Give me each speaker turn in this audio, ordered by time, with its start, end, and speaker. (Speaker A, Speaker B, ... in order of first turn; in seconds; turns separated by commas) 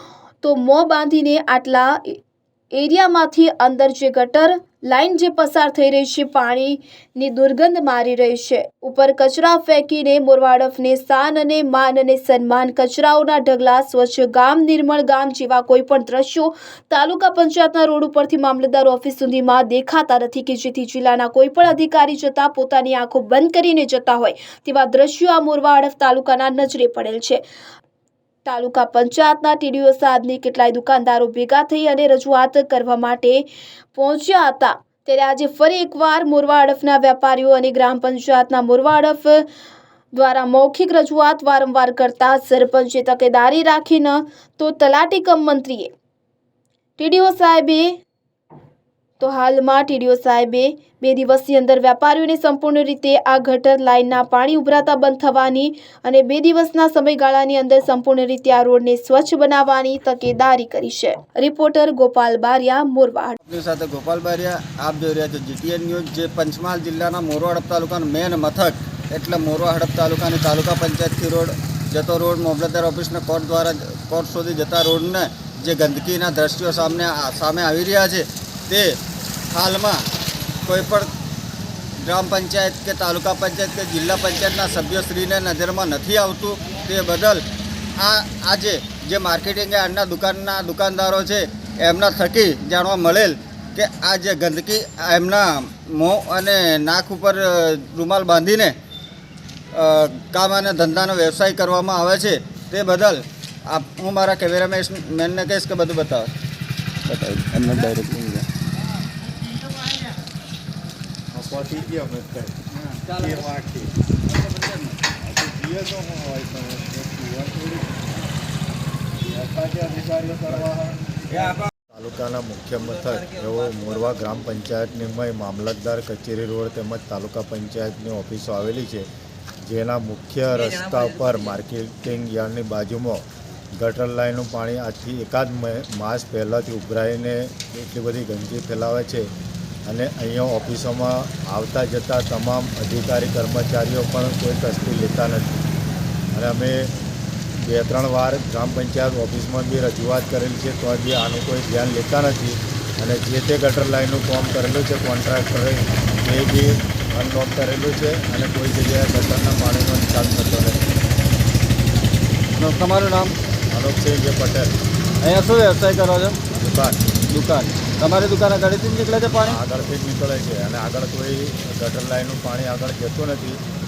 Speaker A: 0.4-2.2, Speaker A: 2.7-27.4, Speaker A: 28.4-39.5, Speaker A: 40.1-45.9, Speaker A: 47.0-48.0, Speaker A: 49.2-63.4, Speaker B: 63.4-78.9, Speaker B: 79.5-80.0, Speaker B: 80.7-81.1, Speaker B: 82.0-87.4, Speaker B: 88.0-98.7, Speaker B: 99.7-106.3, Speaker B: 107.0-108.5, Speaker C: 111.3-112.5, Speaker C: 113.2-113.9, Speaker B: 114.2-115.0, Speaker C: 115.3-117.9, Speaker C: 119.2-121.2, Speaker C: 121.9-129.1, Speaker C: 129.6-133.2, Speaker C: 133.8-139.3, Speaker C: 139.8-145.6, Speaker C: 146.3-146.9, Speaker C: 147.6-160.8, Speaker B: 162.6-163.3, Speaker C: 163.7-164.7, Speaker B: 165.2-166.4, Speaker C: 166.5-167.0, Speaker B: 167.3-169.6, Speaker C: 169.4-173.6